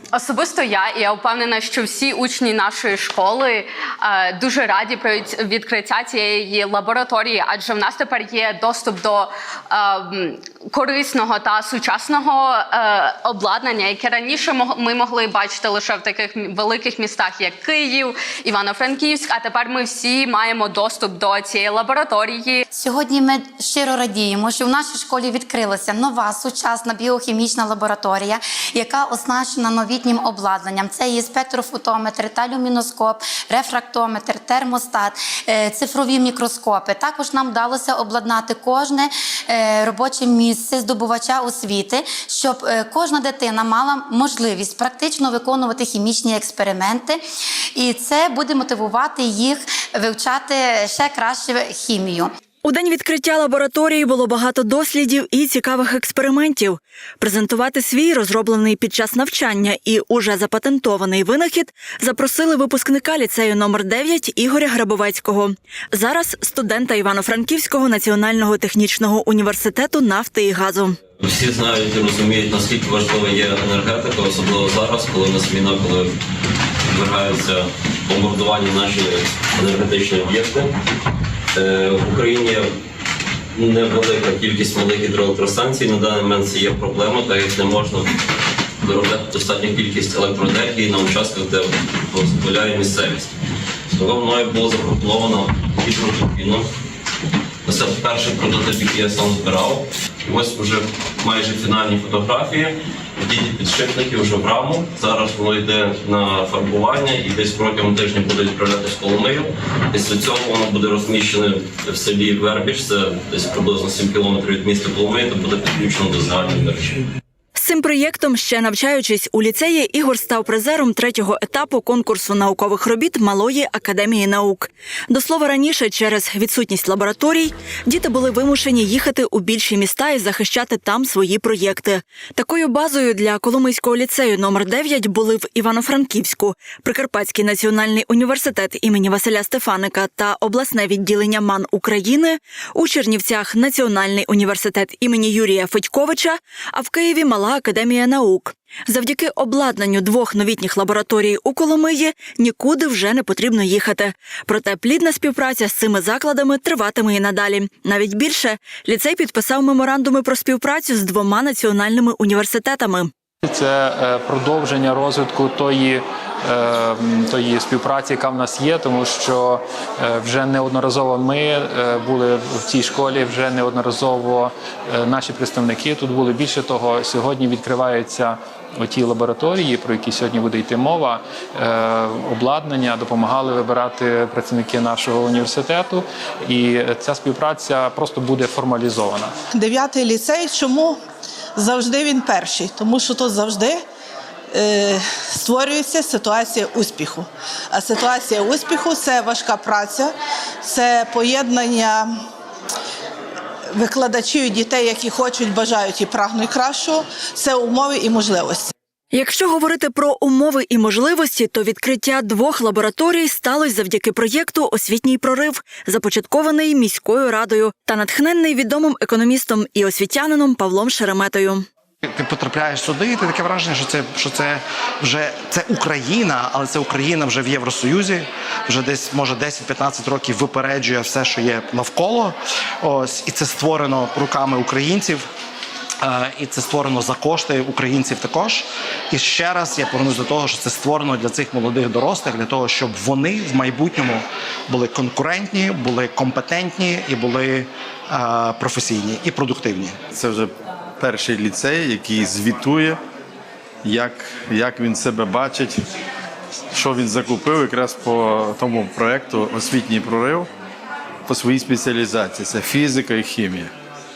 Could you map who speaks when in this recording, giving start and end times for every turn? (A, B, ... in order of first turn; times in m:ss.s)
0:00.1-0:22.6 A
0:22.7-0:47.2 B
0:47.8-0:52.3 B
0:52.6-1:11.0 C
1:11.2-1:16.1 D
1:16.9-1:20.7 D
1:21.5-1:22.6 D
1:23.6-1:28.1 D
1:28.8-1:33.3 D
1:33.9-1:36.6 D
1:37.6-1:57.0 D
1:57.6-2:43.1 C
2:43.4-3:09.3 E
3:09.5-3:11.0 F
3:11.6-3:13.8 F
3:14.5-3:22.1 F
3:23.7-3:28.7 F
3:29.1-3:41.6 C
3:42.1-3:55.2 G
3:56.0-4:10.0 G
4:10.1-4:13.0 H
4:13.8-4:15.8 H
4:16.7-4:20.5 H
4:21.3-4:23.7 H